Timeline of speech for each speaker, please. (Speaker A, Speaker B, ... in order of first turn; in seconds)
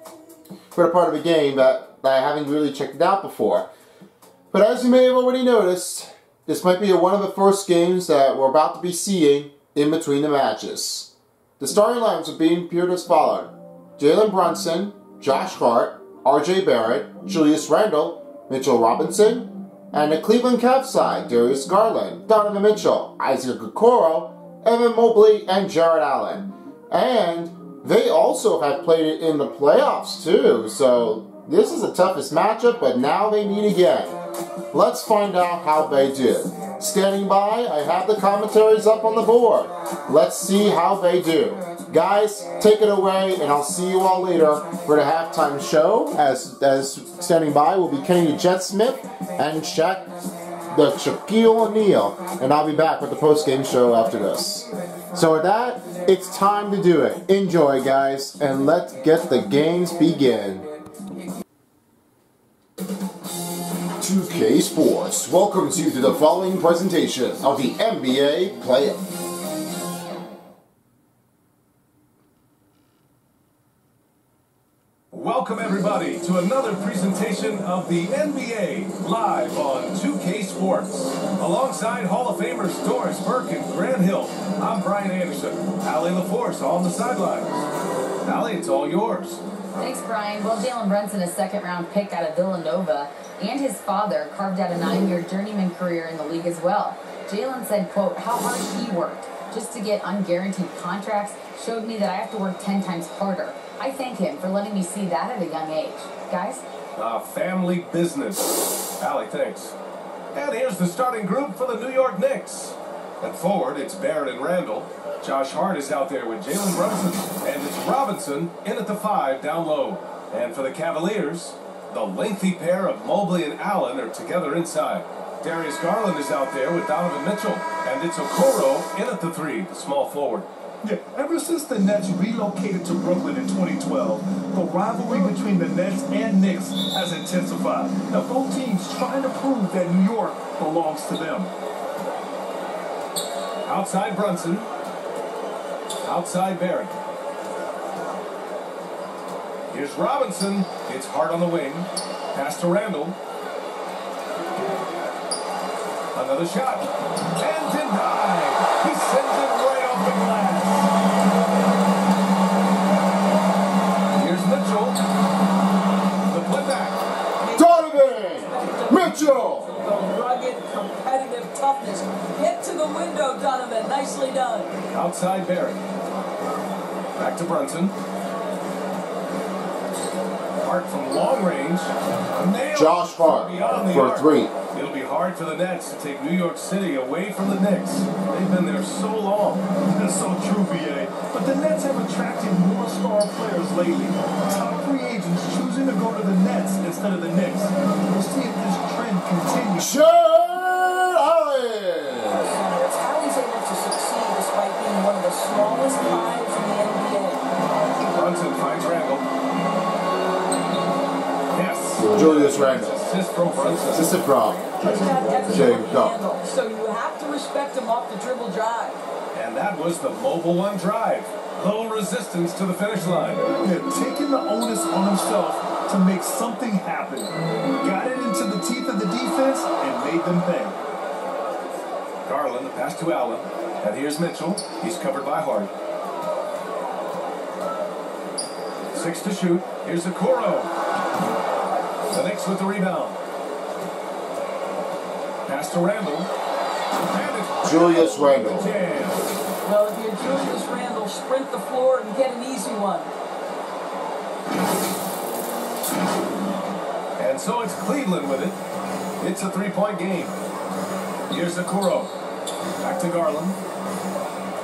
Speaker A: 0.7-3.7, 4.5-34.1, 34.7-50.1, 50.7-60.7, 64.0-69.1, 167.5-169.7, 182.7-184.5, 199.8-202.6, 212.1-213.0, 213.9-214.6, 215.5-216.2, 247.6-248.7
Speaker B: 75.1-87.5, 88.2-89.4, 107.0-109.8, 110.3-130.5, 143.7-144.7, 146.0-146.9, 149.7-153.2, 156.2-160.9, 164.1-165.0, 166.3-167.0, 174.9-175.8, 177.2-178.0, 180.6-189.7, 208.1-209.3, 211.5-214.3, 219.3-223.4, 232.3-235.7, 238.9-240.7, 242.1-243.2, 245.5-246.3, 247.1-249.2, 257.2-258.6, 259.2-260.4, 261.3-262.1, 262.8-263.6
Speaker C: 89.8-106.6
Speaker D: 130.8-141.5, 189.9-200.0, 223.6-230.8
Speaker E: 167.4-174.7, 202.3-207.4, 214.2-219.0, 249.7-253.1